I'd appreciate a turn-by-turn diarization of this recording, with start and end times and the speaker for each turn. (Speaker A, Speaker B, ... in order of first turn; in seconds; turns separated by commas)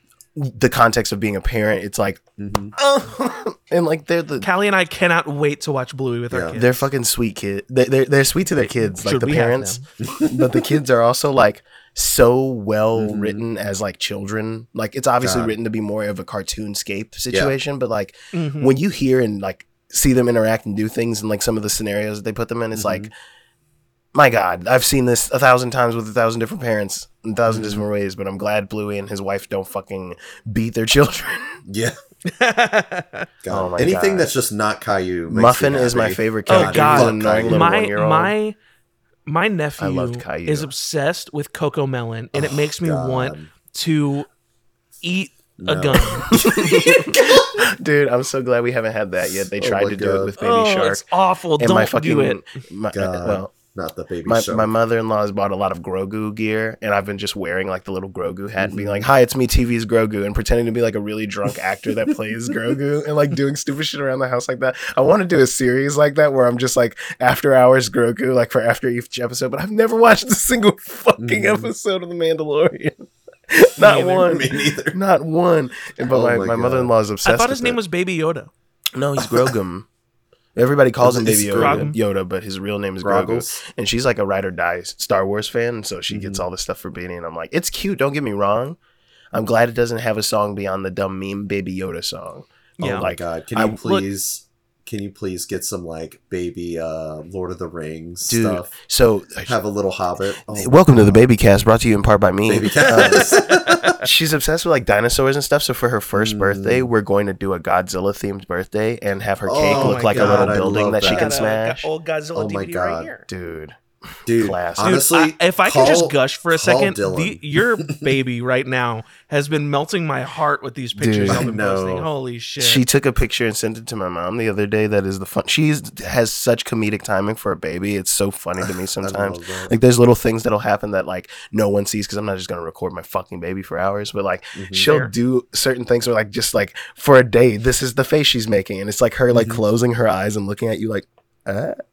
Speaker A: 0.4-4.5, Speaker B: 2.4-2.7, Speaker C: 4.4-6.9, Speaker B: 6.3-6.6, Speaker A: 6.5-23.1, Speaker C: 8.6-9.8, Speaker B: 10.1-10.4, Speaker B: 13.0-13.4, Speaker B: 15.2-15.6, Speaker C: 18.3-18.8, Speaker B: 22.7-23.1, Speaker A: 24.1-31.6, Speaker B: 27.5-27.9, Speaker B: 31.7-31.9, Speaker C: 32.3-33.3, Speaker B: 33.4-37.7, Speaker A: 33.5-34.3, Speaker A: 35.3-38.3, Speaker C: 36.5-38.6, Speaker C: 39.3-44.3, Speaker A: 39.8-40.7, Speaker B: 42.3-43.5, Speaker C: 45.0-46.6, Speaker B: 45.6-47.7, Speaker A: 46.1-51.1, Speaker B: 49.5-50.3, Speaker C: 50.4-52.4, Speaker A: 51.6-53.5, Speaker B: 52.9-54.7, Speaker A: 54.3-72.9, Speaker B: 58.6-59.1, Speaker B: 71.2-71.7, Speaker A: 73.5-77.8, Speaker C: 73.8-74.3, Speaker B: 74.2-75.0, Speaker B: 76.1-76.9, Speaker C: 77.2-78.5, Speaker A: 79.0-79.9, Speaker B: 79.2-79.5, Speaker A: 80.5-88.8, Speaker B: 81.0-81.9, Speaker C: 81.6-82.0, Speaker B: 83.0-83.6, Speaker B: 86.1-86.5, Speaker A: 89.3-93.8, Speaker C: 92.8-93.1, Speaker B: 92.8-98.7, Speaker C: 93.8-94.0, Speaker A: 98.3-99.5, Speaker B: 99.5-101.2, Speaker A: 100.5-103.4, Speaker B: 102.5-103.9, Speaker C: 102.8-104.0, Speaker A: 104.0-111.9, Speaker B: 106.1-106.9, Speaker B: 109.5-111.3, Speaker C: 109.7-113.3, Speaker B: 112.3-113.1, Speaker A: 113.3-115.0, Speaker B: 114.3-118.1, Speaker C: 114.8-122.8, Speaker A: 121.0-121.5, Speaker B: 121.2-122.1, Speaker A: 122.6-141.8, Speaker B: 129.0-129.7, Speaker B: 134.6-134.9, Speaker C: 134.8-135.1, Speaker B: 139.3-139.6